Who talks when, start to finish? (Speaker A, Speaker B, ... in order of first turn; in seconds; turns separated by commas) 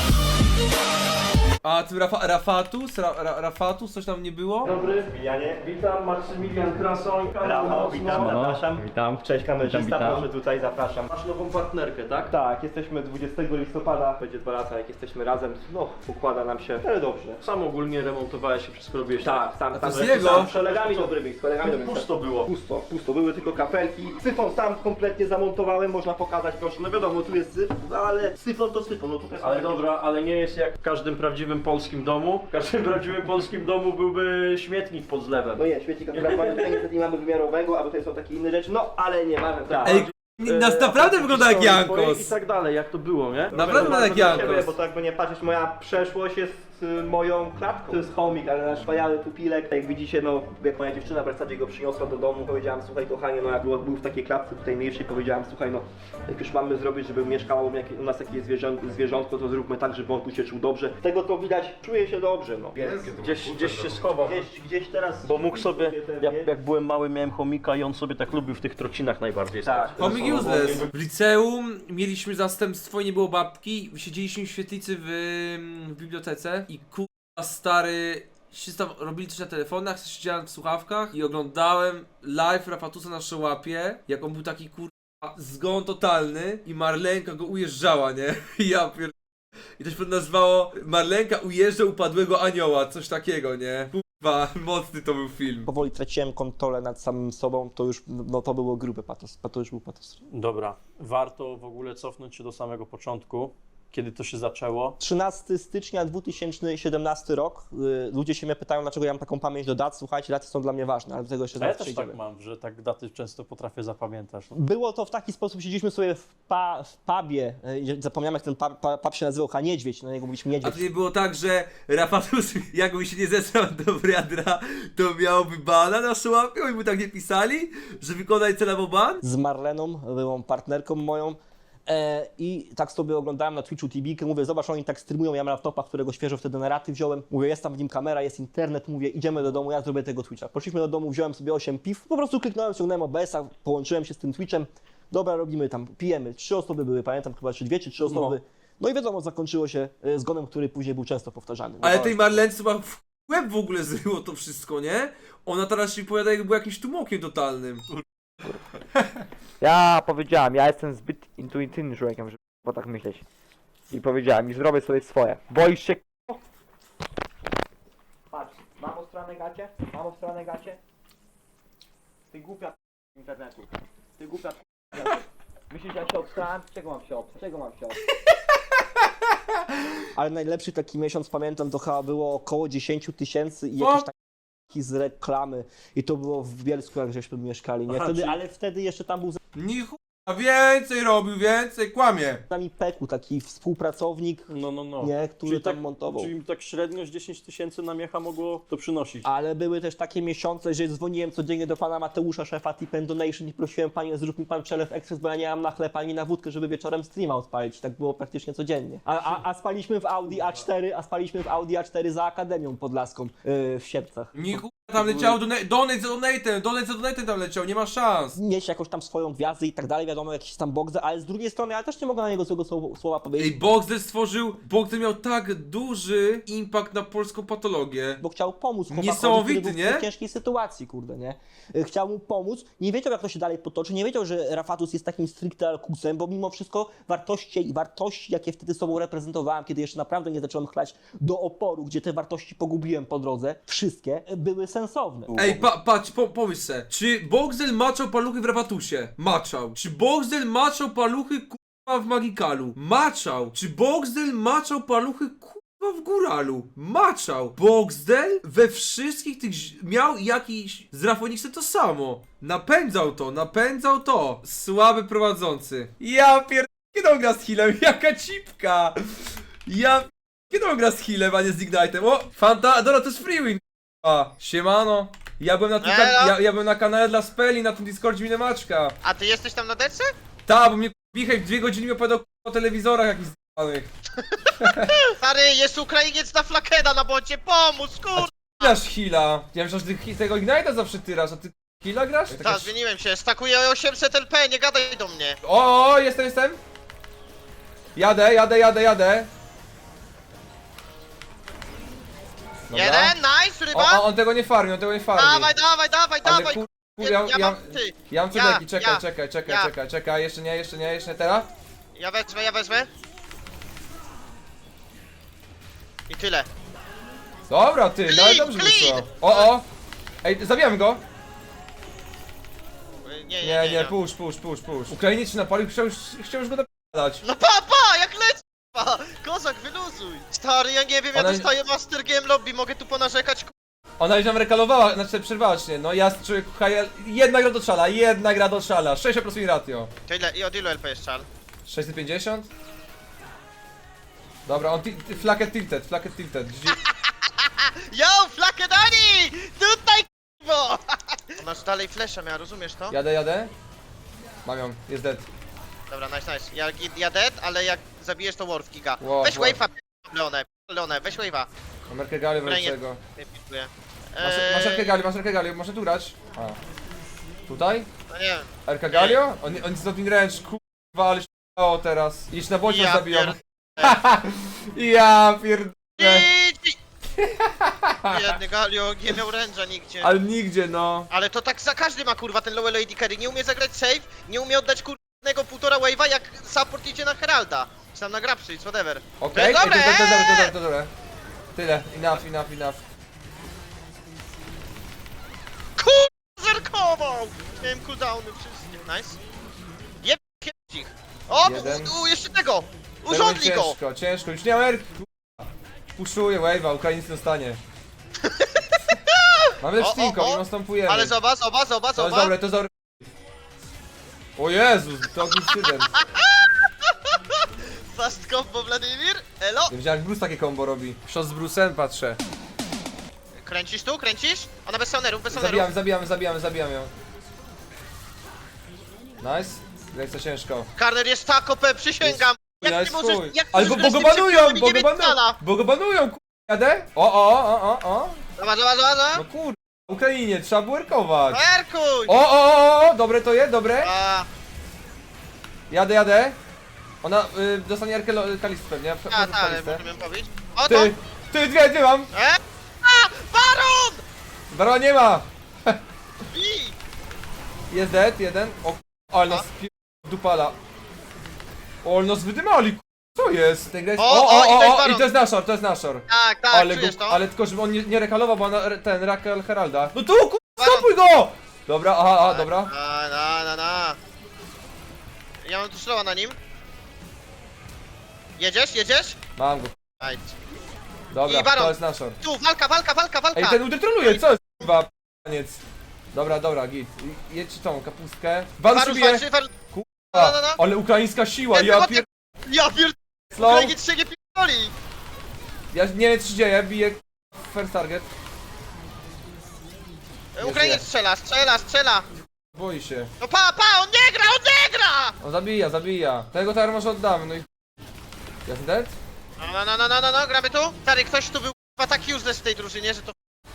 Speaker A: 1.6-4.7, Speaker B: 4.7-8.7, Speaker C: 4.7-5.6, Speaker C: 7.4-11.1, Speaker D: 8.8-9.1, Speaker D: 9.9-10.2, Speaker B: 11.1-12.3, Speaker C: 12.3-17.4, Speaker B: 17.4-22.5, Speaker C: 19.2-29.8, Speaker A: 19.7-20.5, Speaker B: 29.4-35.6, Speaker C: 35.5-40.1, Speaker B: 36.1-36.8, Speaker B: 39.7-44.7, Speaker A: 39.8-42.3, Speaker C: 43.5-63.0, Speaker A: 43.5-44.6, Speaker B: 63.0-64.5, Speaker C: 64.2-66.5, Speaker B: 65.2-70.9, Speaker C: 69.6-70.9, Speaker A: 70.0-89.1, Speaker A: 89.8-95.7, Speaker C: 95.7-100.2, Speaker B: 100.3-105.0, Speaker C: 105.0-112.2, Speaker B: 111.6-114.5, Speaker C: 114.5-120.9, Speaker A: 120.6-129.2, Speaker C: 129.2-152.4, Speaker B: 148.0-148.3, Speaker A: 151.8-157.8, Speaker D: 159.6-163.2, Speaker D: 163.9-166.4, Speaker D: 168.3-170.8, Speaker D: 172.3-178.0, Speaker C: 180.1-184.1, Speaker A: 183.8-184.1, Speaker C: 184.7-189.4, Speaker B: 187.9-188.3, Speaker A: 189.6-192.4, Speaker C: 192.5-196.3, Speaker B: 194.5-199.2, Speaker C: 199.2-215.3, Speaker B: 210.3-210.6, Speaker A: 214.3-218.4, Speaker C: 218.3-223.6, Speaker A: 223.4-228.2, Speaker C: 228.2-245.3, Speaker A: 228.9-230.1, Speaker B: 245.3-245.7, Speaker A: 245.4-268.9, Speaker A: 269.7-278.9, Speaker E: 275.8-276.4, Speaker E: 279.0-280.1, Speaker A: 280.4-283.9, Speaker A: 284.6-285.0, Speaker E: 285.1-288.8, Speaker A: 288.1-292.7, Speaker E: 292.3-295.4, Speaker A: 295.4-296.6, Speaker A: 297.9-299.3, Speaker A: 302.7-303.1, Speaker E: 302.7-304.0, Speaker A: 303.7-305.5, Speaker E: 305.2-309.7, Speaker A: 306.2-311.5, Speaker E: 312.0-312.9, Speaker E: 316.1-316.5, Speaker A: 317.5-319.6, Speaker E: 318.1-319.5, Speaker A: 320.2-321.0, Speaker E: 323.0-323.9, Speaker A: 323.4-327.2, Speaker E: 327.2-333.5, Speaker A: 331.1-331.5, Speaker A: 334.0-339.9, Speaker E: 340.1-341.2, Speaker A: 341.7-342.5, Speaker A: 344.5-346.8, Speaker E: 346.9-350.8, Speaker E: 351.4-352.9, Speaker A: 352.9-353.5, Speaker A: 354.4-355.3, Speaker E: 355.9-361.5, Speaker A: 359.0-359.6, Speaker A: 361.9-363.0, Speaker E: 362.4-365.0, Speaker A: 364.2-366.6, Speaker A: 367.5-367.9, Speaker E: 368.1-369.2, Speaker A: 368.7-376.3, Speaker E: 372.7-374.0, Speaker E: 376.0-376.8, Speaker A: 377.2-378.4, Speaker E: 378.1-380.1, Speaker A: 380.0-381.1, Speaker E: 381.1-390.5, Speaker A: 389.2-390.9, Speaker A: 391.5-392.8, Speaker E: 395.8-399.2, Speaker E: 400.0-403.8, Speaker A: 401.4-401.9, Speaker A: 403.1-407.6, Speaker E: 408.2-412.3, Speaker A: 409.6-411.1, Speaker A: 411.9-413.1, Speaker A: 414.4-416.0, Speaker E: 415.6-419.7, Speaker A: 419.7-422.2, Speaker E: 423.4-425.7, Speaker A: 425.3-426.9, Speaker A: 429.2-430.7, Speaker E: 430.8-435.4, Speaker A: 432.0-438.2, Speaker E: 438.4-439.2, Speaker A: 439.1-441.4, Speaker E: 441.3-442.1, Speaker A: 442.1-443.9, Speaker E: 443.8-444.3, Speaker A: 445.7-446.4, Speaker A: 447.0-449.8, Speaker E: 449.1-450.9, Speaker A: 450.7-452.1, Speaker E: 452.1-454.0, Speaker A: 454.5-455.8, Speaker E: 456.3-456.7, Speaker A: 457.7-460.6, Speaker A: 461.8-472.7, Speaker E: 464.0-465.1, Speaker E: 466.1-467.2, Speaker E: 470.6-470.9, Speaker E: 472.3-474.0, Speaker E: 475.4-476.4, Speaker E: 478.4-479.2, Speaker A: 479.4-479.7, Speaker E: 480.0-480.3, Speaker A: 481.1-482.2, Speaker E: 481.2-484.2, Speaker A: 483.4-485.6, Speaker A: 486.1-492.0, Speaker E: 488.7-489.5, Speaker E: 490.1-490.6, Speaker E: 491.5-494.7, Speaker A: 493.3-493.7, Speaker A: 495.7-498.1, Speaker E: 500.4-502.1, Speaker A: 500.4-500.8, Speaker A: 502.4-503.1, Speaker E: 503.2-505.1, Speaker A: 505.2-507.5, Speaker A: 508.4-509.0, Speaker E: 509.4-513.1